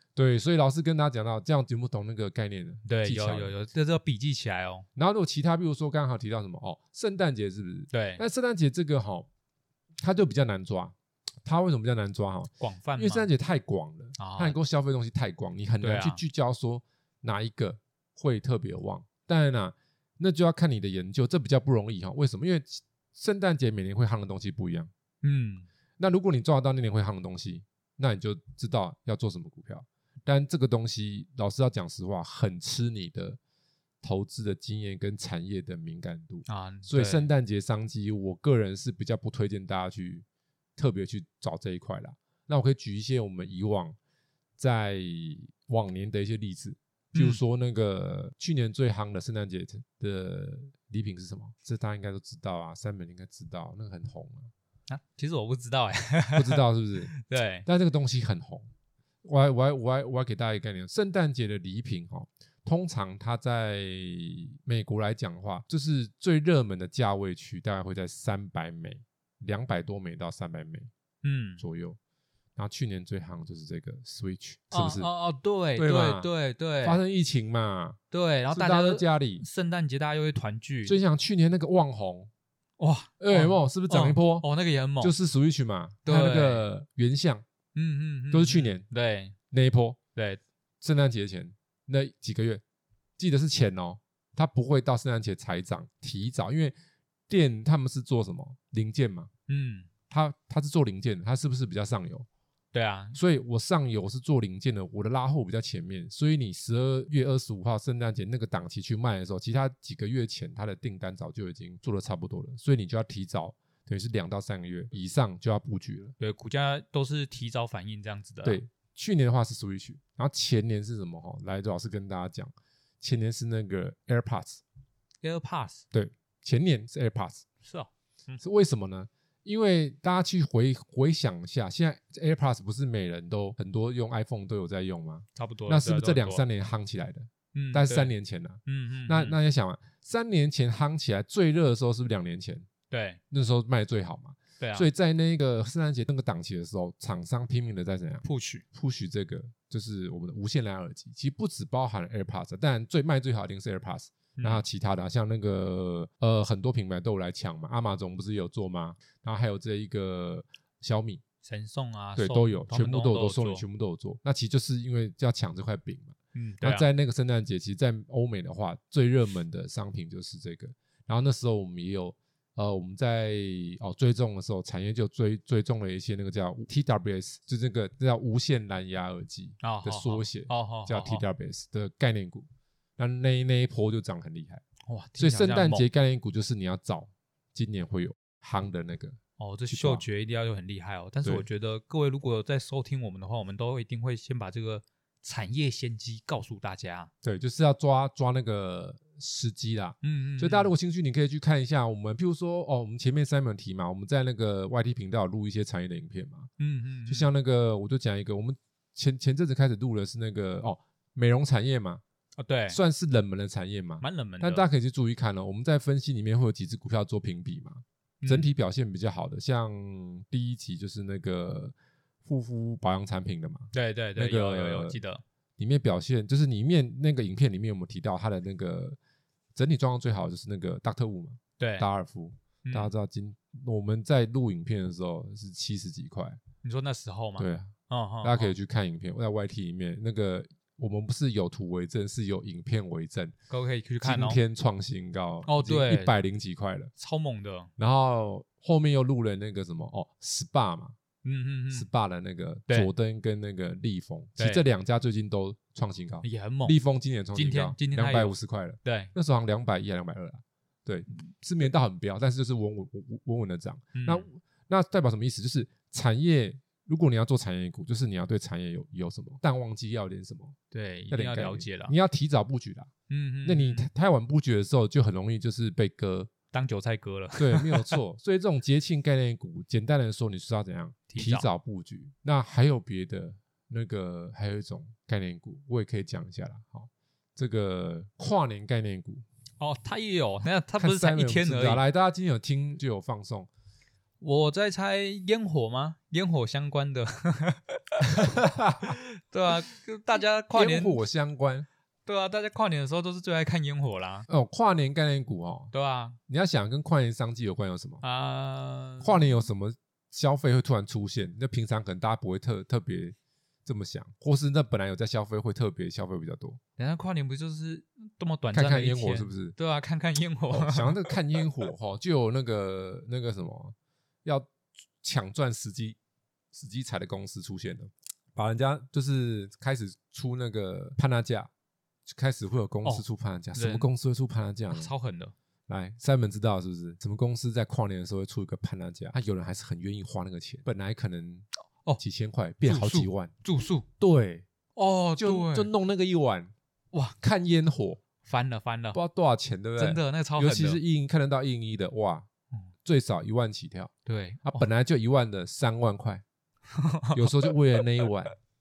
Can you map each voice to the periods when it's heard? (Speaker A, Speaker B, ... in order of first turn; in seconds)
Speaker A: 0.1-3.5, 5.0-9.3, 10.0-24.9, 26.0-33.4, 34.0-40.2, 40.8-44.0, 44.6-54.5, 56.3-57.1, 57.6-58.7, 59.2-70.9, 71.6-72.0, 72.5-75.1, 75.8-76.3, 76.8-78.0, 78.5-79.4, 80.8-82.3, 83.2-84.5, 85.0-87.4, 88.3-88.8, 89.5-90.0, 90.8-92.6, 93.2-96.8, 97.3-99.3, 100.1-102.3, 103.1-116.2, 118.4-124.6, 125.9-127.5, 128.4-142.7, 143.3-161.2, 162.2-184.6, 185.2-189.2, 189.7-190.0, 197.2-206.5, 207.1-212.0, 212.7-225.0, 225.6-229.0, 229.5-236.4, 237.4-237.7, 238.2-243.3, 244.0-246.9, 247.8-250.9, 251.7-270.6, 271.1-272.9, 273.4-276.3, 277.4-289.2, 290.8-293.5, 298.2-298.9, 300.5-301.7, 304.3-305.7, 306.3-308.0, 309.0-316.6, 318.5-319.5, 320.5-326.0, 326.5-331.5, 332.1-334.9, 335.7-341.4, 342.0-343.3, 344.0-344.5, 345.2-346.5, 347.2-348.0, 348.9-352.3, 352.8-353.9, 354.4-356.2, 357.1-358.3
Speaker B: 2.9-4.8, 7.9-8.2, 12.6-13.3, 14.2-14.6, 15.8-16.2, 25.2-25.7, 36.5-37.3, 47.1-47.4, 54.9-57.7, 71.2-71.6, 74.7-77.0, 78.1-81.0, 82.8-85.1, 86.0-86.7, 87.7-89.3, 90.2-90.4, 99.5-99.9, 102.7-103.2, 116.2-118.6, 125.2-125.8, 127.6-128.4, 135.3-136.4, 137.5-138.1, 138.7-139.4, 142.9-143.2, 144.6-144.9, 148.2-148.6, 154.4-154.6, 161.4-163.6, 166.3-166.8, 179.6-181.2, 184.8-185.9, 189.4-197.1, 200.0-200.7, 206.6-207.3, 212.4-212.8, 214.0-214.6, 218.2-218.5, 223.7-225.2, 231.6-231.8, 232.6-232.9, 236.6-238.5, 243.5-244.4, 245.5-246.1, 247.0-247.7, 251.2-251.9, 254.4-254.6, 256.2-256.7, 257.3-259.1, 263.9-264.2, 270.7-271.9, 273.1-273.9, 276.5-278.0, 281.1-281.5, 289.6-291.8, 294.2-301.0, 302.1-304.3, 305.7-306.2, 308.0-309.2, 316.8-321.1, 333.5-333.9, 334.7-335.3, 342.6-343.9, 344.7-345.7, 348.2-349.0, 349.8-350.8, 354.1-354.7, 356.7-357.8